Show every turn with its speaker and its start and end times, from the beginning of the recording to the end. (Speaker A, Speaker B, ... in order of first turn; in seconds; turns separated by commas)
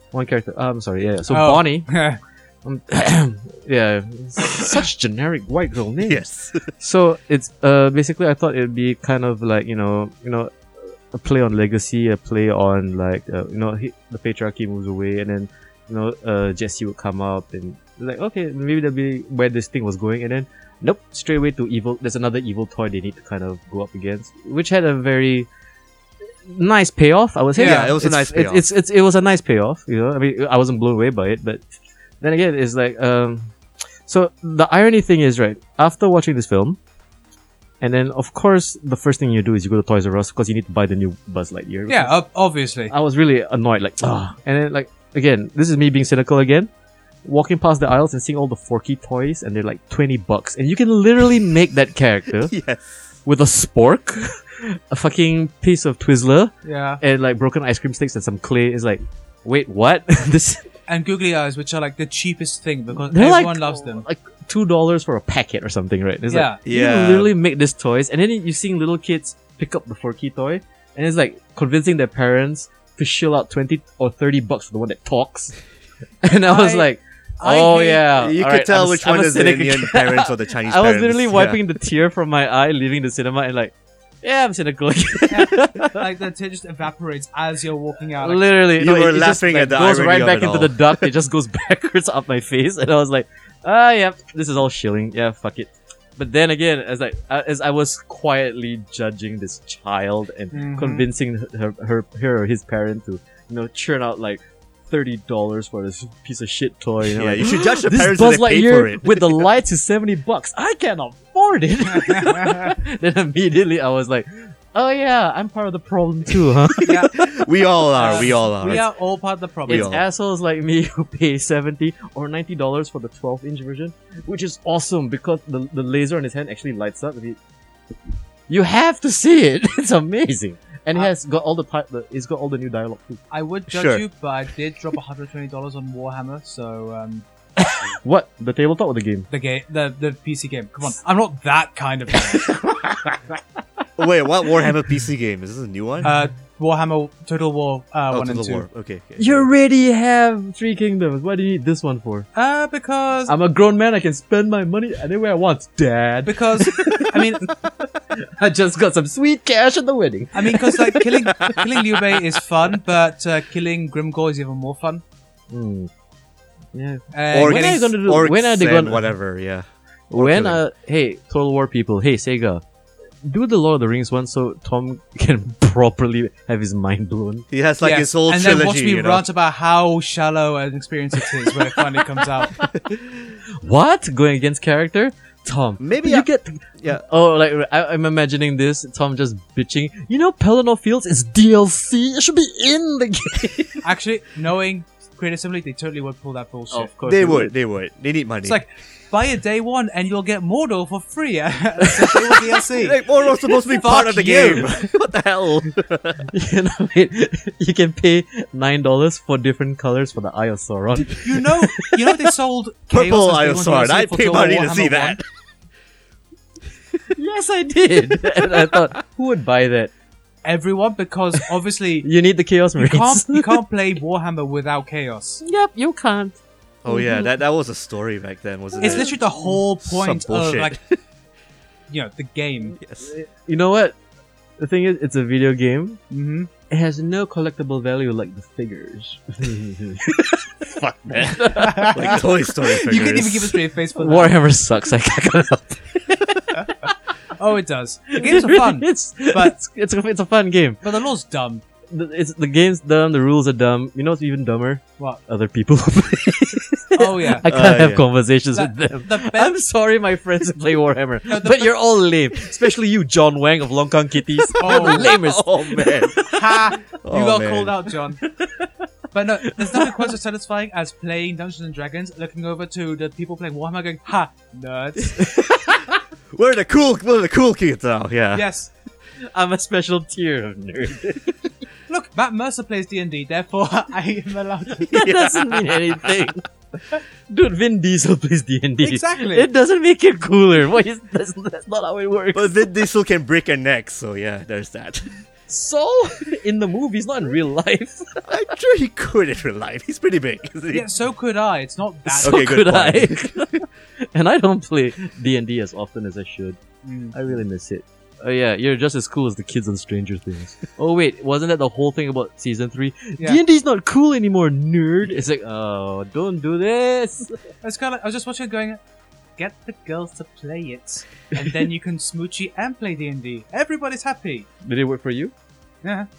Speaker A: 0.1-1.9, Speaker B: 1.3-2.2, Speaker A: 2.6-25.5, Speaker C: 6.0-6.7, Speaker A: 26.5-31.6, Speaker B: 27.6-27.9, Speaker C: 27.6-28.6, Speaker A: 32.2-33.5, Speaker A: 34.1-36.8, Speaker A: 37.8-42.1, Speaker B: 41.9-42.9, Speaker A: 42.9-46.7, Speaker A: 47.2-52.5, Speaker C: 52.5-52.8, Speaker A: 53.3-60.7, Speaker B: 56.6-57.0, Speaker B: 60.9-64.0, Speaker A: 63.1-75.5, Speaker B: 66.3-66.6, Speaker C: 66.7-67.3, Speaker A: 76.2-86.0, Speaker B: 76.5-76.9, Speaker B: 77.4-78.1, Speaker C: 78.1-81.6, Speaker B: 85.3-88.5, Speaker A: 88.2-117.3, Speaker C: 88.8-91.1, Speaker B: 100.5-101.1, Speaker C: 107.1-109.5, Speaker B: 111.9-112.8, Speaker B: 116.9-117.1, Speaker C: 117.1-118.9, Speaker B: 118.0-120.0, Speaker C: 119.7-120.0, Speaker A: 119.7-127.4, Speaker A: 128.5-133.2, Speaker B: 133.3-137.2, Speaker C: 133.7-134.0, Speaker A: 137.6-139.3, Speaker B: 139.3-142.5, Speaker A: 142.3-143.2, Speaker C: 144.0-146.1, Speaker B: 146.0-148.7, Speaker C: 148.1-149.5, Speaker A: 149.2-152.3, Speaker B: 152.3-153.3, Speaker A: 153.3-161.6, Speaker B: 156.2-157.5, Speaker B: 160.3-165.0, Speaker A: 165.5-165.9, Speaker A: 166.7-169.1, Speaker B: 167.1-167.9, Speaker C: 167.3-170.6, Speaker A: 170.1-172.6, Speaker A: 173.2-177.5, Speaker C: 177.5-179.3, Speaker B: 177.8-182.6, Speaker A: 182.6-183.0, Speaker A: 183.6-193.8, Speaker C: 185.8-186.3, Speaker B: 193.8-196.9, Speaker A: 196.7-197.6, Speaker C: 197.1-198.6, Speaker B: 198.4-203.0, Speaker C: 202.8-206.3, Speaker B: 203.7-204.7, Speaker A: 206.3-212.3, Speaker B: 211.1-215.2, Speaker C: 212.9-215.2, Speaker A: 217.1-219.9, Speaker B: 220.4-222.1, Speaker A: 222.0-223.6, Speaker B: 222.8-225.4, Speaker A: 225.4-227.3, Speaker C: 226.8-229.3, Speaker A: 228.8-229.2, Speaker B: 228.8-230.8, Speaker C: 229.8-230.8, Speaker B: 231.9-232.8, Speaker C: 232.8-233.1, Speaker A: 233.1-234.0, Speaker A: 234.6-236.0, Speaker B: 236.1-236.5, Speaker A: 236.7-242.3, Speaker B: 241.6-244.4, Speaker C: 241.9-243.6, Speaker A: 244.0-246.9, Speaker B: 247.3-249.6, Speaker A: 248.2-250.8, Speaker B: 250.8-251.6, Speaker A: 251.9-266.6, Speaker B: 257.0-257.5, Speaker C: 257.5-258.1, Speaker B: 258.5-259.6, Speaker B: 261.3-261.7, Speaker C: 264.6-266.3, Speaker B: 264.6-265.1, Speaker B: 266.2-268.2, Speaker C: 267.0-267.7, Speaker A: 268.4-268.7, Speaker B: 269.1-275.3, Speaker A: 269.6-270.1, Speaker A: 275.3-275.6, Speaker C: 276.3-278.5, Speaker B: 278.3-278.7, Speaker A: 279.2-281.5, Speaker B: 281.9-285.1, Speaker C: 284.9-286.3, Speaker A: 284.9-292.7, Speaker B: 288.8-289.5, Speaker C: 292.3-295.2, Speaker A: 295.5-298.2, Speaker C: 298.3-300.9, Speaker B: 300.7-302.5, Speaker A: 302.1-306.6, Speaker C: 302.2-303.6, Speaker B: 306.8-307.1, Speaker A: 307.1-317.4, Speaker B: 317.6-318.8, Speaker B: 319.4-324.5, Speaker A: 324.6-325.3